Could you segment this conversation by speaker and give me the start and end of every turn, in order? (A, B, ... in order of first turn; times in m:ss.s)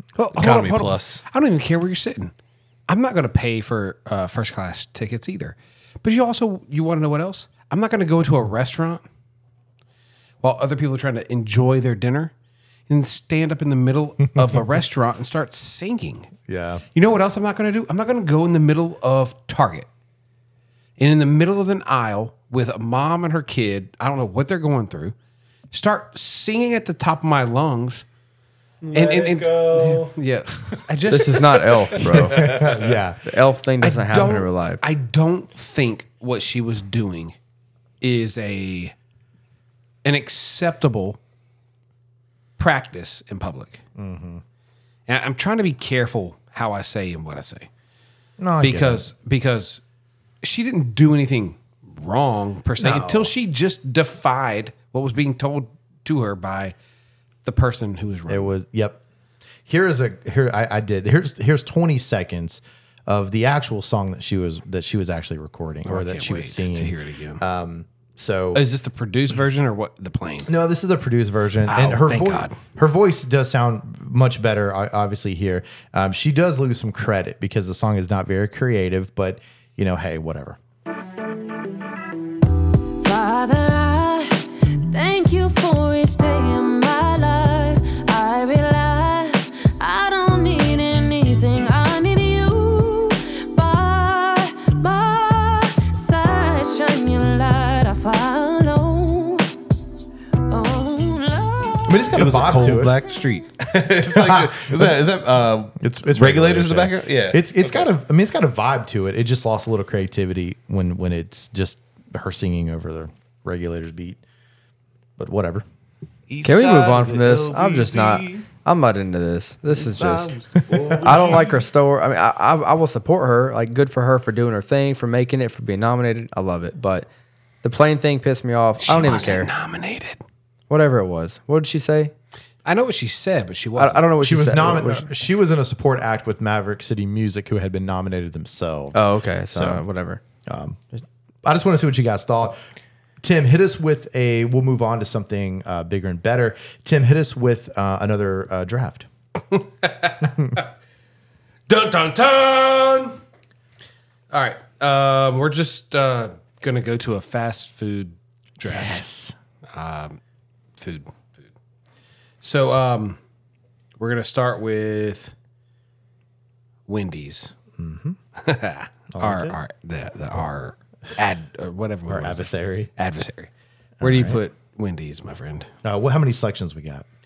0:00.2-0:02.3 A
0:00.4-0:01.2 B
0:02.9-0:09.0 A
0:10.4-0:12.3 A
0:12.9-0:16.3 A
0:16.5-0:16.8 C
0:17.0-0:19.9 A
0:21.0-0:25.2 A
0:25.7-0:28.0 A
0:28.8-0:30.1 B
0:28.9-0:31.6 A
0:31.1-0:32.5 D
0:31.4-0:33.0 B
0:32.1-0:33.2 C
0:33.2-0:34.8 D
0:33.8-0:37.4 A
0:38.0-0:38.9 A
0:40.0-0:41.2 A
0:42.6-0:43.8 A
0:44.0-0:44.4 C
0:45.1-0:47.7 A
0:48.4-0:49.1 C
0:48.6-0:49.8 A
0:50.4-0:56.8 A
0:52.8-0:53.3 C
0:57.4-0:58.5 A
0:58.3-0:59.0 C
0:59.7-1:08.6 C
1:05.9-1:07.4 A
1:08.5-1:10.5 A
1:10.5-1:20.6 C
1:11.7-1:12.6 A
1:23.0-1:39.5 E
1:40.5-1:42.1 E
1:41.8-1:43.0 C
1:42.1-1:47.9 B
1:44.0-1:45.0 C
1:45.8-1:54.2 C
1:55.2-1:55.6 C
1:56.3-1:58.5 B
1:56.4-2:00.3 D
1:59.7-2:01.6 B
2:00.9-2:07.1 D
2:07.6-2:09.5 D
2:08.8-2:10.2 A
2:10.7-2:12.1 D
2:12.6-2:14.1 A
2:13.8-2:15.1 D
2:14.2-2:19.8 C
2:18.9-2:20.2 D
2:20.5-2:20.9 C
2:21.4-2:22.6 C
2:23.2-2:29.1 C
2:29.5-2:30.6 A
2:31.7-2:33.2 A
2:34.3-2:39.0 A
2:38.6-2:39.4 C
2:39.7-2:40.2 A
2:40.8-2:41.5 A
2:42.4-2:43.2 A
2:44.0-2:45.3 A
2:46.9-2:47.5 A
2:47.8-2:48.2 C
2:48.4-2:53.5 A
2:49.2-2:49.6 C
2:52.1-2:52.9 C
2:54.0-2:54.4 C
2:54.0-2:55.7 A
2:55.8-2:57.0 C